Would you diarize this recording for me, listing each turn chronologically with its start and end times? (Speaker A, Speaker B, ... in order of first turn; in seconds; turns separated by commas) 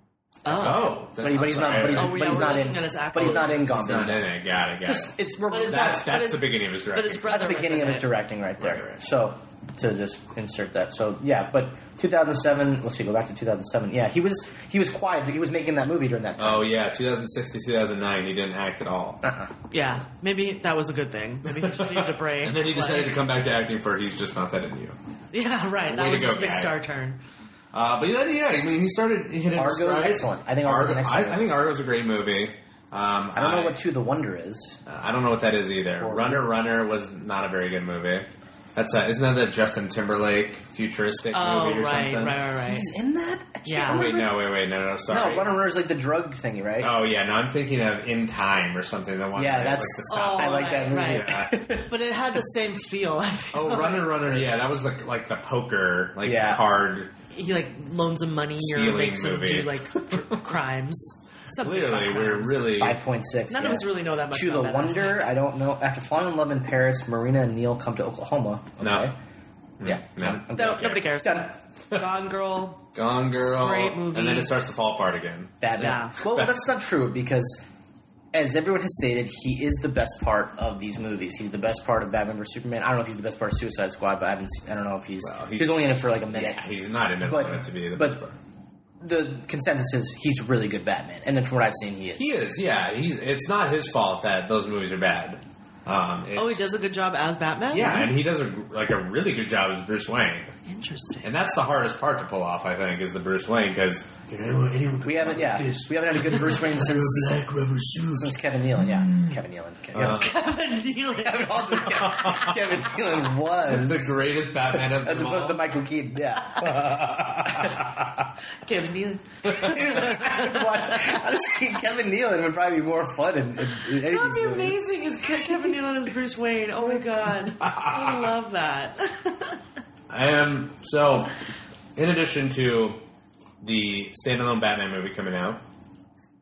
Speaker A: 0.4-0.9, Speaker B: 0.5-4.3, Speaker C: 0.5-7.3, Speaker A: 1.9-3.7, Speaker B: 4.8-6.2, Speaker A: 5.5-8.1, Speaker B: 7.3-16.7, Speaker C: 8.6-9.0, Speaker C: 16.4-19.2, Speaker B: 19.2-19.5, Speaker A: 19.7-23.2, Speaker C: 21.5-25.0, Speaker A: 25.3-27.2, Speaker C: 25.9-26.8, Speaker C: 27.7-33.8, Speaker B: 29.5-31.5, Speaker B: 33.3-34.8, Speaker C: 34.9-42.4, Speaker B: 36.0-36.5, Speaker A: 41.3-42.9, Speaker B: 42.6-44.4, Speaker A: 43.6-44.0, Speaker C: 43.8-45.6, Speaker B: 45.1-46.9, Speaker C: 46.8-51.5, Speaker B: 49.4-51.9, Speaker A: 50.1-54.4, Speaker C: 53.5-57.1, Speaker B: 56.2-56.6, Speaker A: 57.3-62.8, Speaker C: 58.6-60.5, Speaker C: 61.6-63.0, Speaker B: 62.7-69.1, Speaker A: 63.5-65.3, Speaker C: 68.8-69.1, Speaker C: 69.8-71.0, Speaker B: 69.8-71.5, Speaker A: 70.5-72.8, Speaker C: 72.9-76.5, Speaker A: 73.6-74.5, Speaker B: 75.6-77.6, Speaker A: 75.7-76.2, Speaker B: 78.3-86.6, Speaker C: 85.2-88.4, Speaker B: 87.2-88.2, Speaker B: 89.0-92.3, Speaker C: 92.2-96.6, Speaker A: 96.3-98.1, Speaker C: 97.7-100.5, Speaker A: 100.7-101.3, Speaker C: 101.2-109.4, Speaker B: 105.0-107.4, Speaker B: 108.1-110.3, Speaker C: 109.9-110.3, Speaker A: 110.0-111.9, Speaker B: 111.1-114.2, Speaker C: 111.8-112.6, Speaker C: 113.7-115.6, Speaker B: 114.7-117.8, Speaker C: 116.6-118.2, Speaker A: 118.6-121.2, Speaker C: 119.5-119.8, Speaker B: 119.5-124.8, Speaker A: 124.0-129.6, Speaker C: 127.6-128.3, Speaker C: 130.1-131.3, Speaker C: 131.9-133.0, Speaker C: 133.6-135.6